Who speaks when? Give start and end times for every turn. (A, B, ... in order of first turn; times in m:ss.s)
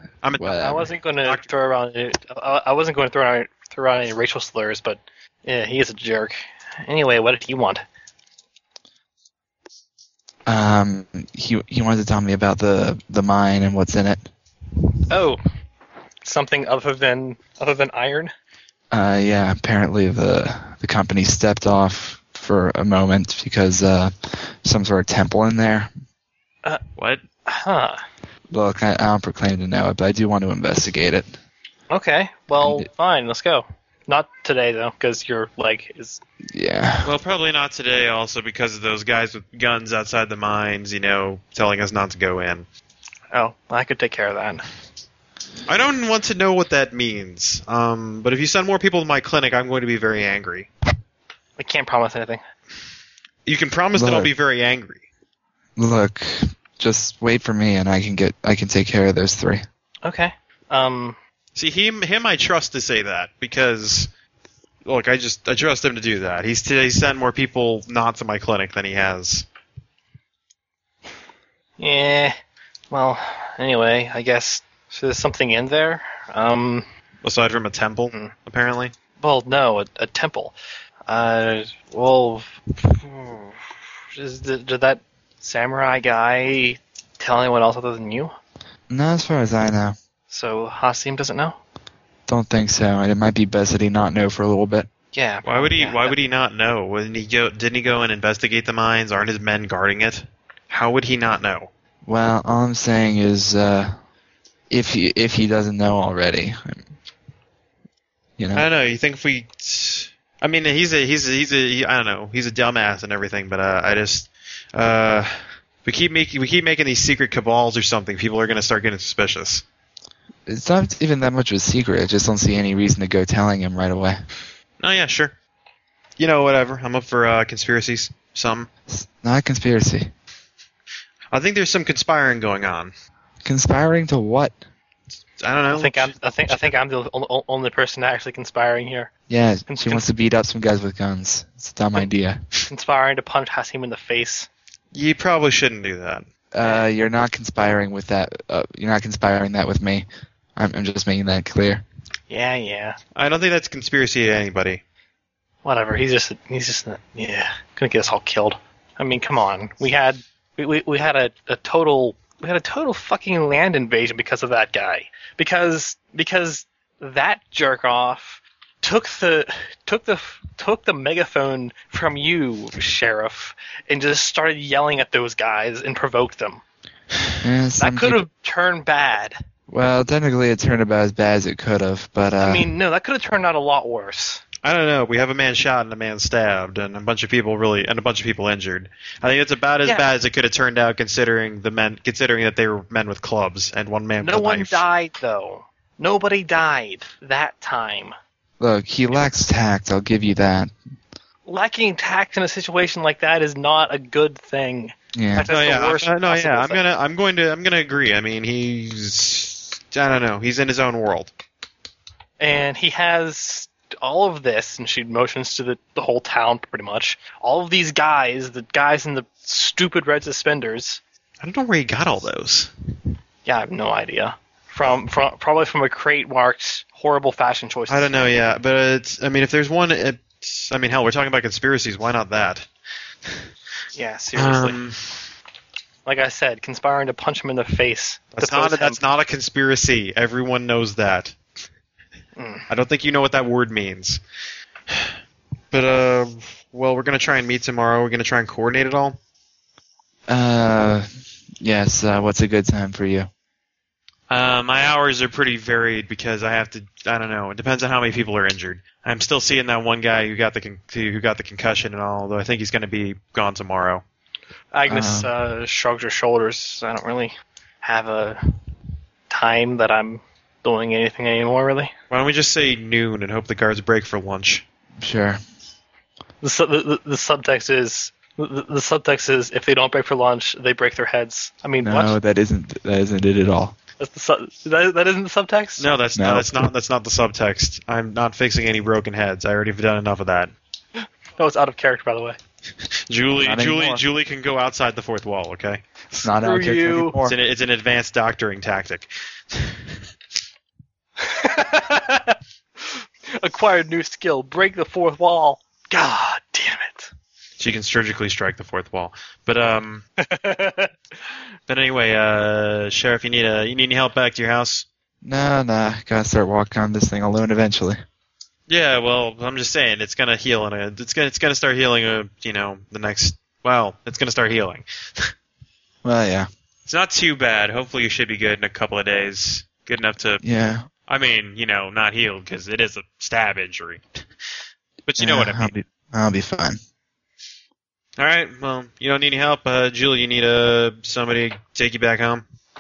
0:00.2-0:00.7 A
0:00.4-0:00.8 B
0:00.6-0:07.8 C
0:10.5-0:14.3 B
0:15.1-0:15.4 C
0:16.2-0:18.3 C
0:18.9-0:25.9 B
0:27.0-0:27.2 A
0:27.5-0:28.0 C
0:28.5-0:31.3 B
0:31.9-0:36.2 C
0:32.6-0:32.9 B
0:36.5-0:37.1 B
0:37.0-0:42.6 A
0:43.3-0:44.6 C
0:45.7-0:50.7 A
0:51.6-0:52.4 C
0:53.5-0:55.0 A
0:54.0-0:54.3 B
0:55.8-0:59.6 B
1:00.0-1:01.2 C
1:01.6-1:04.1 A
1:04.8-1:09.4 A
1:11.8-1:12.4 C
1:12.9-1:16.9 C
1:17.2-1:18.9 A
1:19.2-1:20.6 C
1:21.1-1:23.5 C
1:24.1-1:28.3 C
1:28.9-1:30.0 B
1:30.3-1:31.6 C
1:32.3-1:34.9 B
1:35.1-1:36.2 C
1:35.4-1:41.7 A
1:42.1-1:44.0 B
1:44.7-1:46.8 B
1:48.4-1:48.7 B
1:48.5-1:59.6 A
2:00.5-2:04.2 B
2:04.8-2:05.4 A
2:06.2-2:08.7 A
2:08.9-2:10.1 B
2:11.3-2:12.9 A
2:13.4-2:14.6 B
2:15.4-2:16.7 A
2:15.7-2:19.1 C
2:19.3-2:22.4 B
2:19.7-2:20.0 C
2:22.7-2:24.5 C
2:24.9-2:26.3 A
2:26.5-2:31.8 B
2:32.3-2:33.0 C
2:33.2-2:34.8 A
2:35.6-2:56.6 C
2:57.4-2:58.2 B
2:57.8-2:59.4 C
2:59.7-3:02.7 B
3:02.4-3:04.4 C
3:04.6-3:14.8 A
3:14.2-3:18.2 C
3:18.6-3:20.7 B
3:21.5-3:26.8 C
3:25.1-3:25.5 B
3:25.5-3:31.3 A
3:32.4-3:41.0 C
3:41.4-3:42.7 A
3:43.5-3:48.3 C
3:47.9-3:52.7 A
3:54.0-3:54.8 C
3:54.4-3:55.3 A
3:56.0-3:59.0 C
3:58.4-4:01.4 A
4:02.4-4:02.7 C
4:02.7-4:04.2 A
4:05.7-4:09.2 A
4:10.3-4:11.1 B
4:11.6-4:13.3 B
4:14.3-4:24.0 A
4:24.7-4:28.4 C
4:24.9-4:25.3 B
4:29.3-4:31.9 C
4:32.1-4:34.6 A
4:35.0-4:35.4 B
4:36.4-4:42.2 C
4:41.8-4:43.8 B
4:44.0-4:46.0 C
4:45.8-4:50.5 A
4:46.2-4:46.7 B
4:51.4-4:52.4 C
4:53.1-4:55.8 A
4:53.4-4:54.0 B
4:56.1-4:57.4 B
4:56.3-4:57.2 C
4:57.2-4:59.8 A
5:01.2-5:07.1 C
5:07.6-5:10.0 A
5:10.2-5:10.9 C
5:11.7-5:14.9 A
5:15.2-5:18.0 B
5:18.7-5:25.3 A
5:26.0-5:26.5 B
5:26.9-5:30.4 A
5:30.4-5:30.9 B
5:31.1-5:34.0 A
5:35.1-5:35.7 A
5:35.2-5:36.8 B
5:38.2-5:42.5 A